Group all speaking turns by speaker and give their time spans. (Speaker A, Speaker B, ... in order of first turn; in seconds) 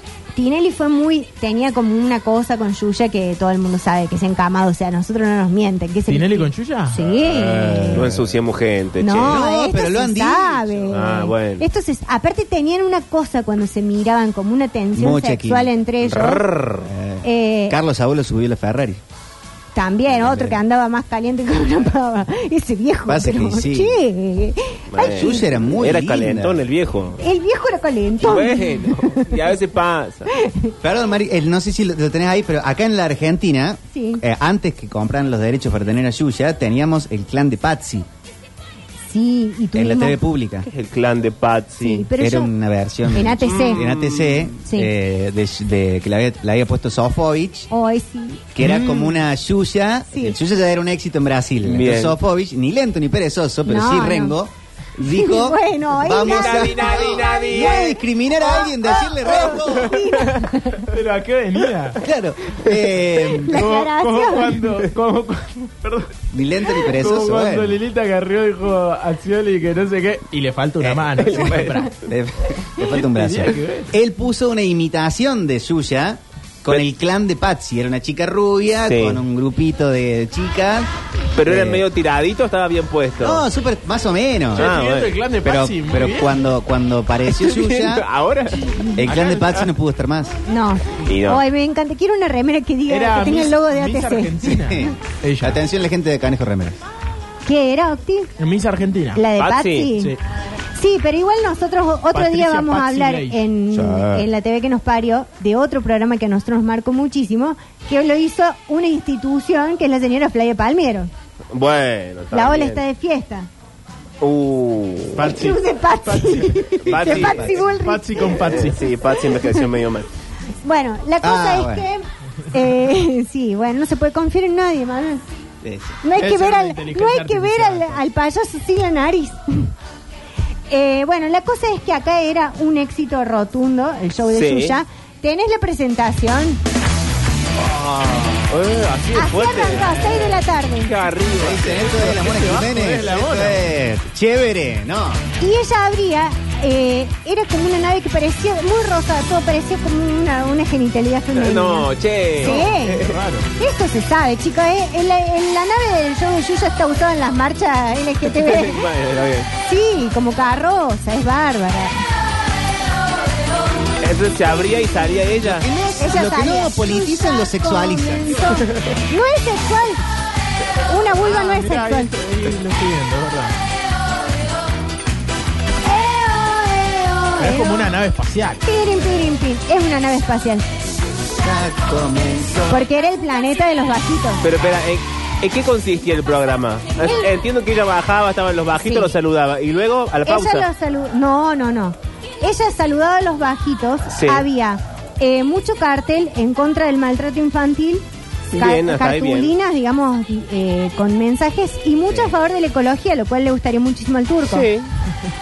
Speaker A: 0.3-8.1, 9.0-16.5, 17.2-17.8, 19.7-25.7, 27.2-29.4, 30.3-30.7, 33.9-34.2, 39.1-40.2, 41.8-42.5, 43.1-43.9, 44.6-44.9, 47.7-48.5, 53.6-54.4, 55.0-60.9, 63.5-64.6, 90.5-94.4, 97.5-98.3, 99.1-100.2, 100.7-111.1, 112.3-113.5, 115.2-118.6, 120.6-125.2, 126.0-129.7, 130.7-136.6, 139.1-141.0, 145.4-153.0, 153.6-158.9, 159.6-162.0, 166.0-170.0, 170.9-172.1, 175.8-177.9, 178.6-180.8, 182.7-184.4, 188.8-189.1, 190.2-204.7
Speaker B: 6.1-7.0, 48.6-49.2, 60.9-62.0, 63.4-66.1, 66.7-71.9, 72.8-73.9, 84.5-86.4, 89.0-89.6, 92.9-95.6, 98.4-99.2, 102.1-103.4, 115.1-116.7, 117.7-118.9, 126.1-128.0, 141.8-143.6, 152.4-153.5, 171.2-173.6, 177.4-178.6
Speaker C: 7.6-8.3, 9.2-10.9, 14.9-15.7, 16.8-19.0, 20.1-20.6, 23.1-23.9, 25.0-26.6, 30.8-38.1, 39.7-40.7, 42.1-47.7, 48.5-60.0, 62.0-63.7, 66.3-67.8, 70.8-80.9, 81.5-81.8, 83.2-84.7, 85.4-88.0, 89.0-90.3, 94.5-96.8, 116.9-117.7, 121.2-121.8, 125.6-126.0, 137.6-138.5, 141.4-145.2, 165.4-168.6, 181.3-182.8
Speaker D: 7.9-9.4, 10.9-11.6, 16.0-16.9, 24.9-27.2, 28.2-30.3, 40.6-42.1, 43.4-44.5, 51.6-52.2, 56.2-58.0, 59.5-60.4, 71.2-71.8, 78.9-79.2, 81.3-83.4, 84.6-85.2, 87.3-88.7, 91.0-91.4, 99.4-99.9, 103.7-104.1, 111.5-112.8, 114.2-115.3, 116.9-117.5, 118.4-120.1, 134.3-134.8, 138.5-141.8, 151.3-153.2, 158.3-159.5, 164.0-165.7, 184.4-190.7, 194.1-194.4, 198.5-199.5, 204.4-204.9